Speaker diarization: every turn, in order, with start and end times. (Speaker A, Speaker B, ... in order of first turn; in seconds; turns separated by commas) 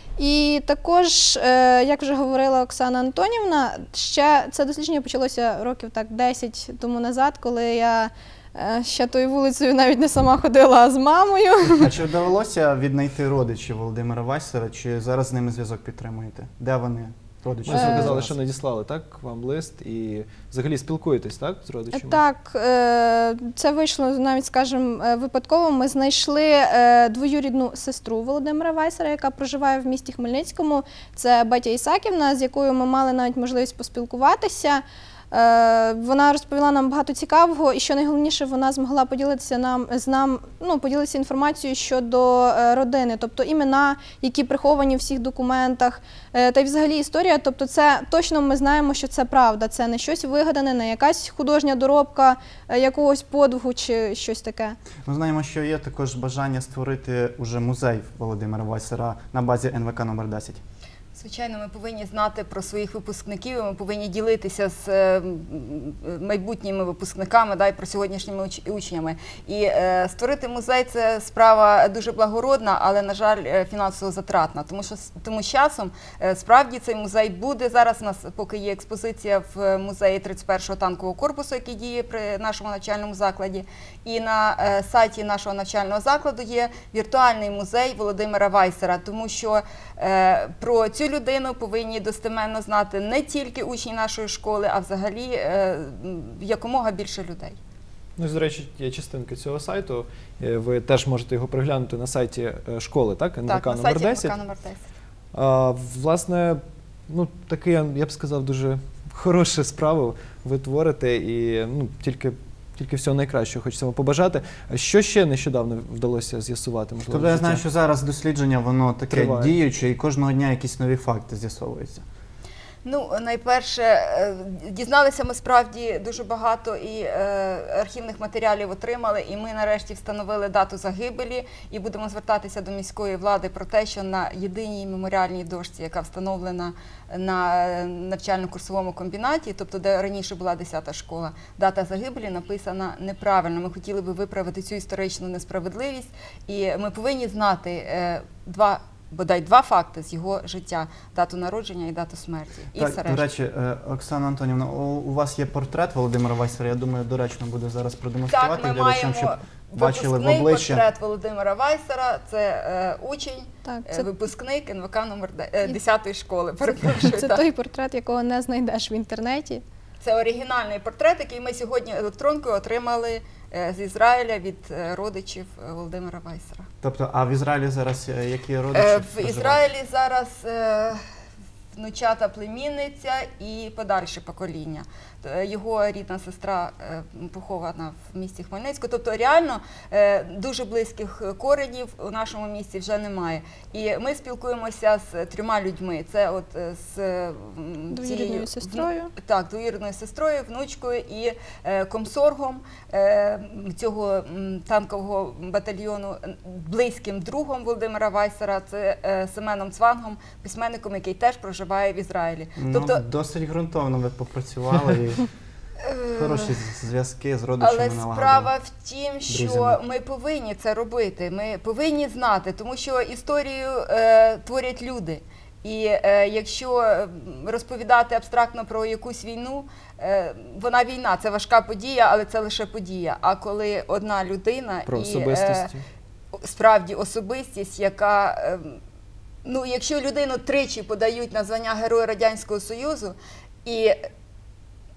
Speaker A: 0.2-11.9, Speaker B: 11.7-18.4, Speaker C: 17.6-22.2, Speaker A: 17.7-18.1, Speaker A: 21.9-54.8, Speaker B: 55.1-60.6, Speaker D: 61.1-97.6, Speaker C: 98.2-104.3, Speaker D: 103.5-104.9, Speaker C: 105.3-117.6, Speaker B: 117.1-122.0, Speaker C: 119.1-119.6, Speaker D: 122.8-153.3, Speaker B: 152.7-160.8, Speaker D: 158.3-167.4, Speaker A: 163.7-164.1, Speaker A: 166.8-169.6, Speaker D: 170.0-176.7, Speaker B: 176.8-179.6, Speaker D: 178.7-181.0, Speaker D: 181.7-213.0, Speaker A: 197.9-199.1, Speaker B: 212.6-215.3, Speaker D: 215.8-216.5, Speaker B: 216.1-218.5, Speaker D: 217.6-235.7, Speaker B: 219.3-219.8, Speaker C: 234.9-235.8, Speaker D: 236.4-238.8, Speaker D: 239.4-244.0